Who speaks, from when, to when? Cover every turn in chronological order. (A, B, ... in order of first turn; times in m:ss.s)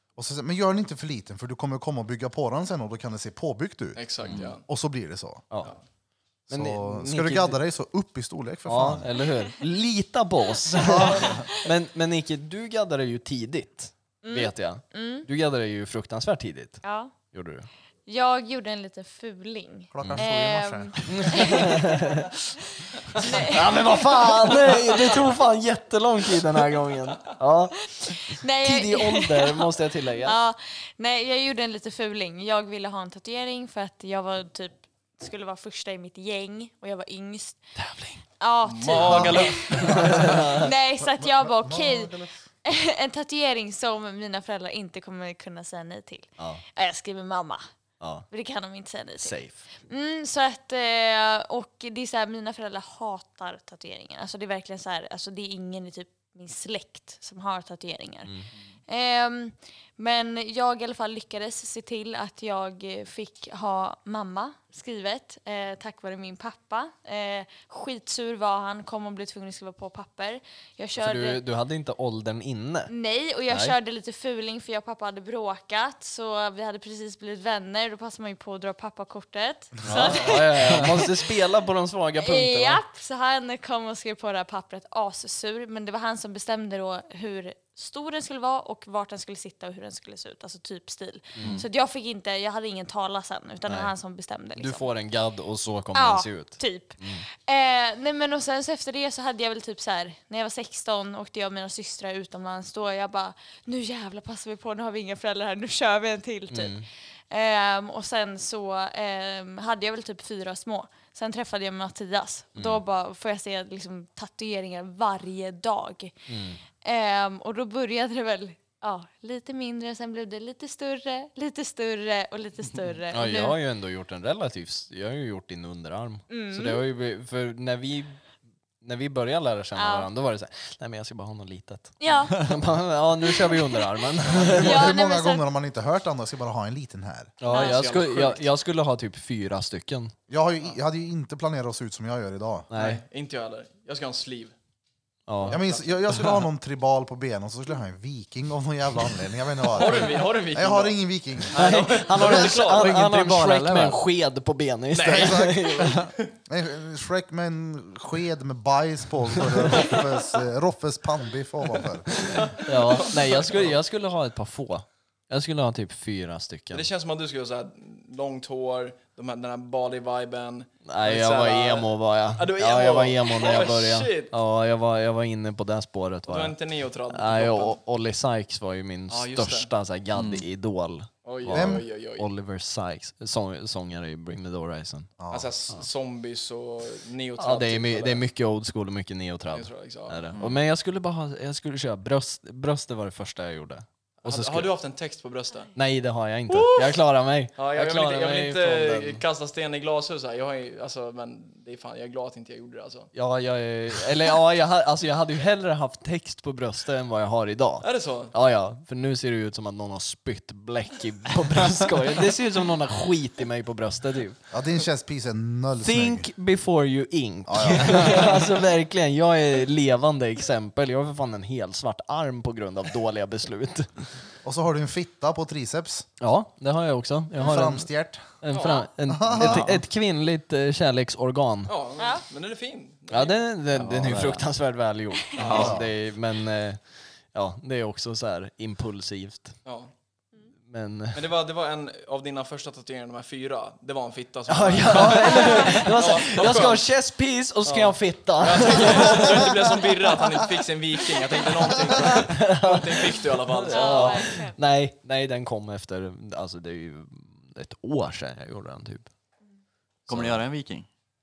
0:00.2-0:05.4 A
0:04.0-0:04.6 B
0:06.5-0:09.1 A
0:06.5-0:07.6 C
0:08.6-0:17.7 C
0:10.8-0:11.4 A
0:11.2-0:11.6 D
0:14.2-0:15.3 D
0:16.8-0:17.2 D
0:18.0-0:22.2 D
0:19.9-0:21.5 A
0:21.1-0:22.3 C
0:22.8-0:25.0 D
0:23.2-0:30.4 C
0:28.0-0:37.6 D
0:37.8-0:38.2 C
0:38.4-0:47.6 D
0:38.6-0:40.4 B
0:39.1-0:40.2 A
0:39.8-0:40.7 C
0:41.0-0:42.4 A
0:48.0-0:48.2 C
0:48.3-1:11.4 D
0:49.2-0:49.7 C
1:11.0-1:12.9 C
1:12.9-1:21.3 D
1:13.5-1:13.7 C
1:19.8-1:20.2 E
1:19.8-1:22.8 C
1:22.2-1:34.9 D
1:31.4-1:31.6 C
1:33.6-1:33.9 C
1:34.6-1:37.2 C
1:35.9-1:56.1 D
1:46.5-1:46.8 C
1:52.5-1:52.8 C
1:56.3-1:56.6 C
1:56.8-2:03.6 D
2:03.1-2:08.2 C
2:06.3-2:06.8 D
2:08.8-2:14.9 C
2:09.7-2:10.1 D
2:12.0-2:12.5 D
2:13.3-2:13.9 D
2:14.3-2:17.4 A
2:14.5-2:15.4 D
2:17.4-2:20.1 C
2:17.5-2:17.8 D
2:17.5-2:18.4 B
2:20.3-2:22.7 A
2:22.7-2:23.0 C
2:22.7-2:24.5 B
2:25.3-2:25.6 C
2:25.4-2:26.2 B
2:25.5-2:31.6 A
2:29.7-2:33.1 B
2:31.5-2:36.0 C
2:32.8-2:34.0 E
2:34.9-2:36.2 B
2:35.0-2:42.4 A
2:42.2-2:43.7 B
2:42.6-2:46.9 C
2:46.7-2:54.3 B
2:50.8-2:56.6 C
2:56.3-2:57.8 B
2:57.1-3:05.1 C
2:59.1-2:59.7 B
3:00.1-3:00.4 E
3:01.2-3:02.2 B
3:01.5-3:01.8 A
3:05.2-3:05.5 A
3:05.3-3:08.2 B
3:07.4-3:14.7 C
3:09.5-3:10.2 B
3:14.2-3:15.7 B
3:15.8-3:19.2 C
3:16.5-3:17.0 B
3:17.6-3:23.1 B
3:23.1-3:34.4 C
3:27.8-3:28.3 B
3:34.5-3:36.3 A
3:35.8-3:44.2 C
3:37.5-3:38.4 A
3:44.4-3:46.1 A
3:46.2-3:47.9 C
3:47.4-3:48.2 A
3:48.4-3:51.7 C
3:48.5-3:48.8 B
3:48.6-3:48.8 D
3:49.1-3:49.8 A
3:49.3-3:49.8 E
3:51.7-3:53.4 B
3:52.0-3:52.2 D
3:53.1-3:59.6 C
3:53.7-3:54.4 E
3:55.4-3:55.7 B
3:55.4-3:55.8 E
3:55.5-3:55.9 A
3:59.6-3:59.9 B
4:00.6-4:01.2 C
4:01.1-4:06.9 B
4:04.5-4:09.7 C
4:05.3-4:05.9 D
4:07.6-4:14.3 B
4:12.0-4:19.1 C
4:13.7-4:14.6 D
4:20.1-4:20.9 E
4:20.1-4:20.4 C